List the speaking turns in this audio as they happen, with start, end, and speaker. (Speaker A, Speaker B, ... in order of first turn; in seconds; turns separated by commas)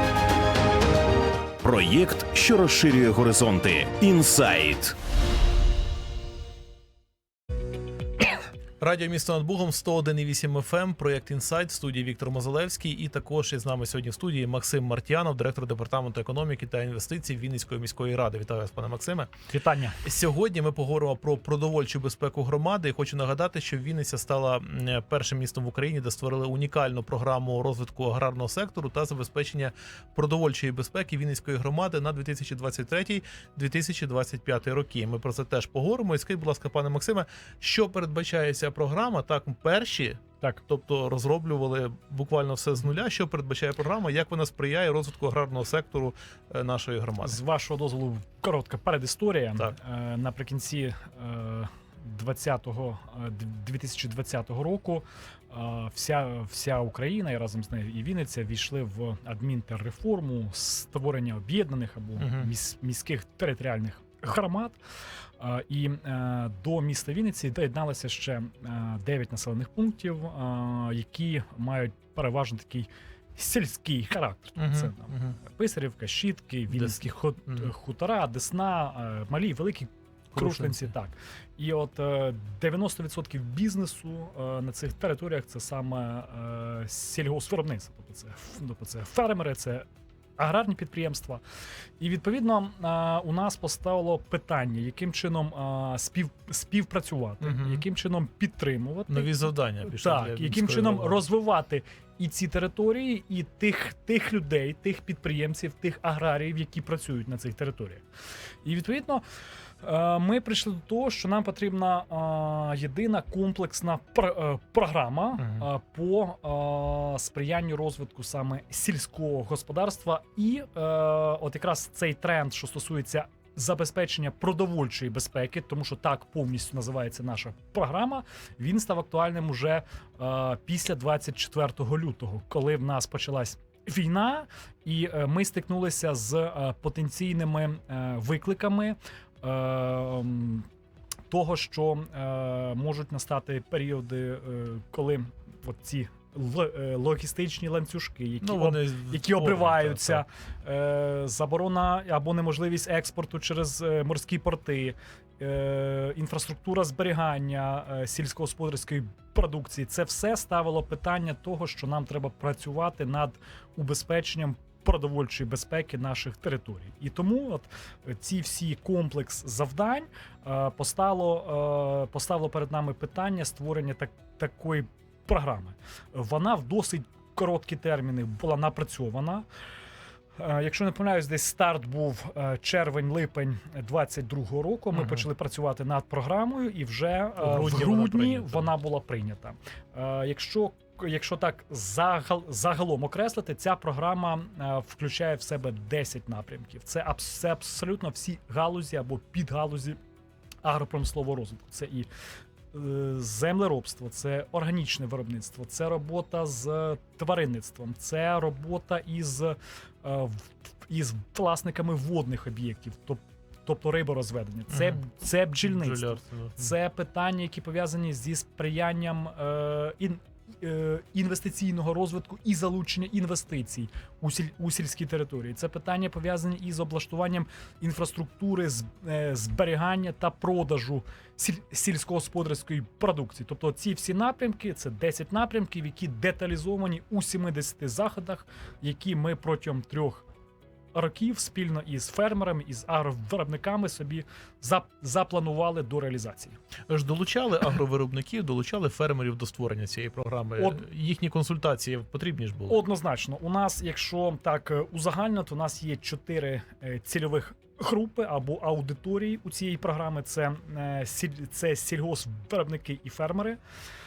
Speaker A: 1.6-5.0, Speaker B: 8.8-19.3, Speaker C: 19.5-20.0, Speaker B: 20.0-47.4, Speaker C: 47.2-64.8, Speaker B: 62.2-62.5, Speaker C: 65.4-89.9, Speaker B: 74.6-75.4, Speaker B: 76.7-77.7, Speaker B: 80.3-80.9, Speaker C: 90.4-91.4, Speaker C: 92.0-108.0, Speaker B: 97.4-97.8, Speaker B: 99.1-101.2, Speaker C: 108.6-109.2, Speaker C: 109.8-140.7, Speaker C: 141.3-179.5, Speaker B: 148.4-150.2, Speaker C: 180.4-200.0, Speaker B: 184.9-185.3, Speaker B: 187.4-188.7, Speaker C: 200.6-202.1, Speaker C: 202.7-240.3, Speaker B: 214.7-215.0, Speaker B: 215.6-216.7, Speaker C: 240.9-246.6, Speaker B: 246.9-252.8, Speaker C: 252.7-263.6